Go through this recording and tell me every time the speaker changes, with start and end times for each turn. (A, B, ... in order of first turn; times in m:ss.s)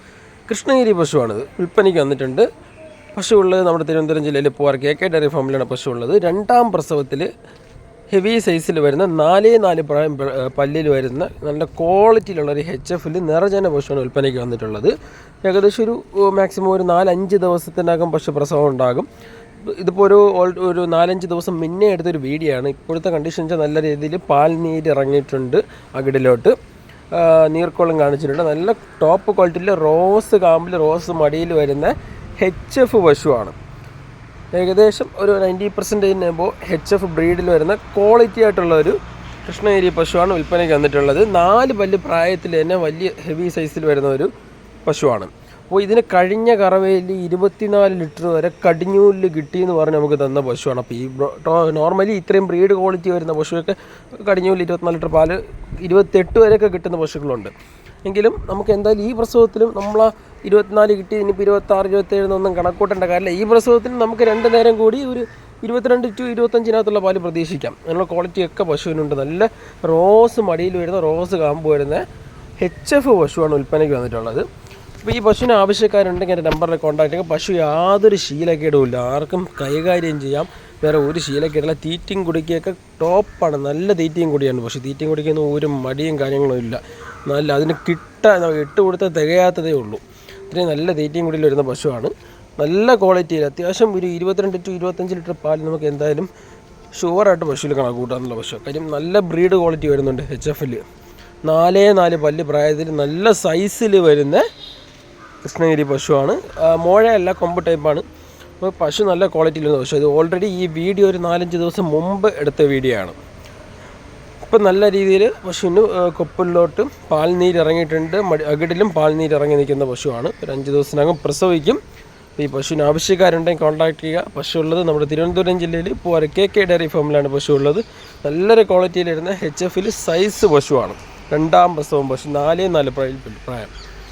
0:00.5-0:02.5 A
0:03.1-0:07.3 A
0:08.1-0:14.9 A
0:15.4-0:19.1 A
0:19.7-0:26.5 A
0:27.1-0:33.5 A
0:34.5-0:44.3 A
0:44.8-0:57.5 A
0:58.0-1:12.0 A
1:12.6-1:14.5 A
1:15.0-1:36.3 A
1:36.9-1:40.8 A
1:41.4-1:44.4 A
1:45.4-1:48.0 A
1:48.6-1:53.2 A
1:54.5-2:01.8 A
2:02.4-2:13.7 A